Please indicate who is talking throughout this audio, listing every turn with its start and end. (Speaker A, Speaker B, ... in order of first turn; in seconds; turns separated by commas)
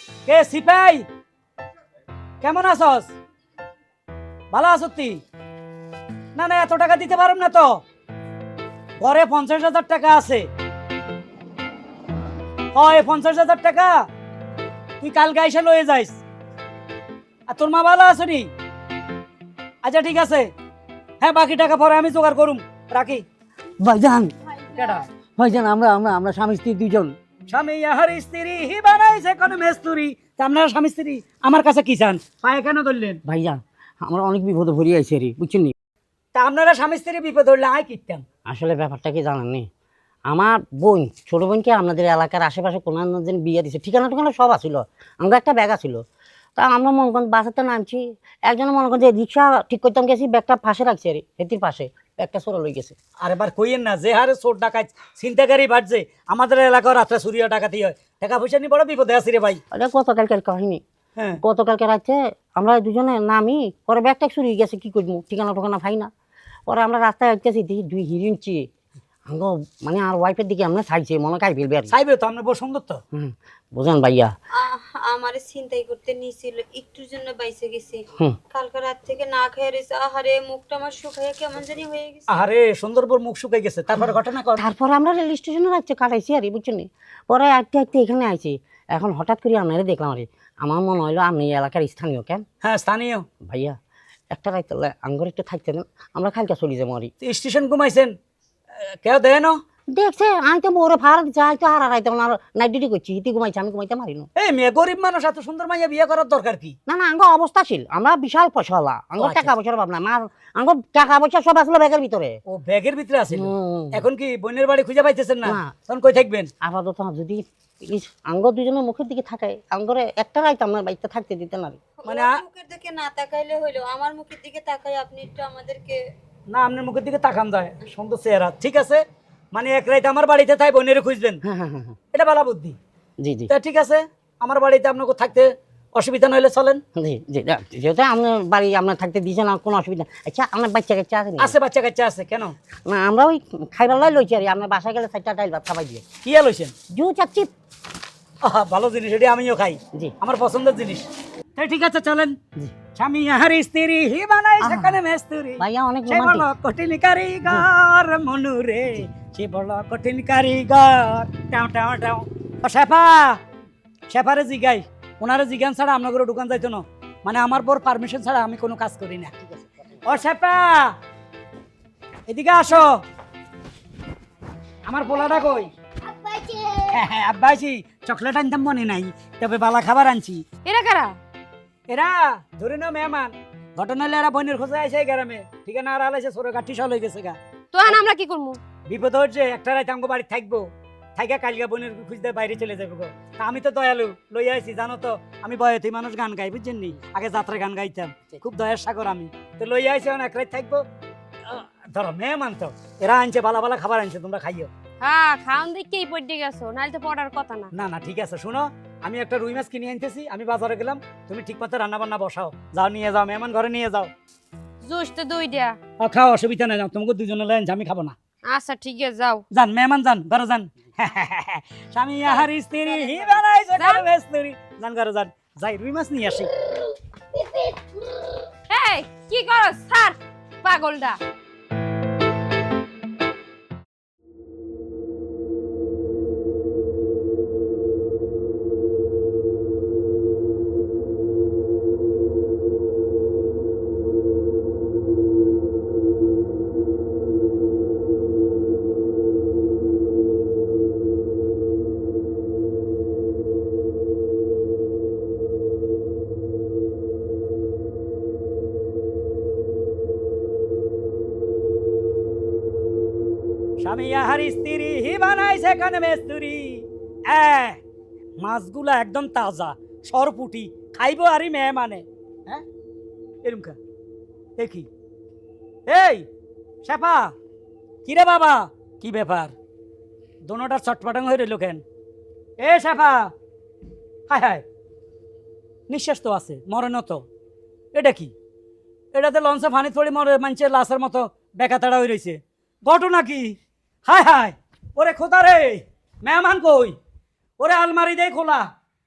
Speaker A: 0.2-1.0, Speaker A: 2.4-3.1, Speaker A: 4.5-5.2, Speaker A: 6.3-7.8, Speaker A: 9.0-10.5, Speaker A: 12.7-14.0, Speaker A: 15.0-16.2, Speaker A: 17.5-18.5, Speaker A: 19.8-20.5, Speaker A: 21.2-23.2, Speaker B: 23.8-27.1, Speaker A: 24.7-25.0, Speaker A: 27.5-33.2, Speaker B: 33.2-35.7, Speaker A: 36.3-38.2, Speaker B: 38.5-39.7, Speaker B: 40.3-46.0, Speaker B: 46.5-52.9, Speaker A: 53.2-59.6, Speaker B: 59.7-60.8, Speaker A: 61.1-61.4, Speaker B: 61.4-66.1, Speaker B: 66.7-68.6, Speaker B: 69.3-71.9, Speaker A: 71.9-73.0, Speaker B: 73.1-74.3, Speaker C: 74.5-82.3, Speaker A: 82.3-84.7, Speaker B: 84.5-92.4, Speaker A: 92.6-93.2, Speaker B: 93.4-93.8, Speaker B: 94.3-97.1, Speaker A: 97.2-98.1, Speaker A: 98.8-99.6, Speaker B: 99.9-104.3, Speaker A: 104.3-106.7, Speaker B: 106.9-112.4, Speaker A: 109.2-109.5, Speaker A: 112.5-116.5, Speaker B: 113.3-114.0, Speaker B: 115.5-115.7, Speaker B: 116.6-121.8, Speaker C: 122.0-126.0, Speaker A: 122.0-122.4, Speaker A: 126.5-131.4, Speaker B: 131.4-132.0, Speaker A: 132.1-132.8, Speaker B: 133.2-133.5, Speaker A: 133.5-136.8, Speaker B: 136.9-141.5, Speaker A: 141.4-142.5, Speaker B: 142.8-146.0, Speaker A: 146.2-146.7, Speaker B: 146.9-147.5, Speaker A: 148.4-151.0, Speaker A: 151.6-152.4, Speaker A: 152.9-163.4, Speaker B: 154.6-155.0, Speaker B: 155.6-156.5, Speaker A: 164.1-169.3, Speaker A: 170.0-170.9, Speaker A: 172.3-172.9, Speaker A: 174.8-175.7, Speaker A: 176.7-180.4, Speaker D: 180.6-181.1, Speaker A: 181.9-187.4, Speaker D: 187.7-188.6, Speaker A: 188.8-200.8, Speaker A: 201.4-204.7, Speaker D: 205.0-207.7, Speaker A: 207.7-214.1, Speaker D: 214.8-215.8, Speaker A: 216.0-218.1, Speaker D: 218.5-219.4, Speaker A: 219.5-226.5, Speaker D: 223.0-224.1, Speaker D: 227.3-228.0, Speaker D: 228.7-231.2, Speaker A: 263.8-267.8, Speaker A: 268.4-272.6, Speaker A: 273.4-273.8, Speaker A: 274.6-274.9, Speaker A: 275.9-276.2, Speaker A: 276.8-277.3, Speaker A: 278.0-279.5, Speaker A: 280.4-281.8, Speaker A: 282.6-283.3, Speaker A: 284.3-284.6, Speaker A: 285.9-287.2, Speaker A: 287.9-288.3, Speaker A: 289.1-296.9, Speaker A: 297.6-298.7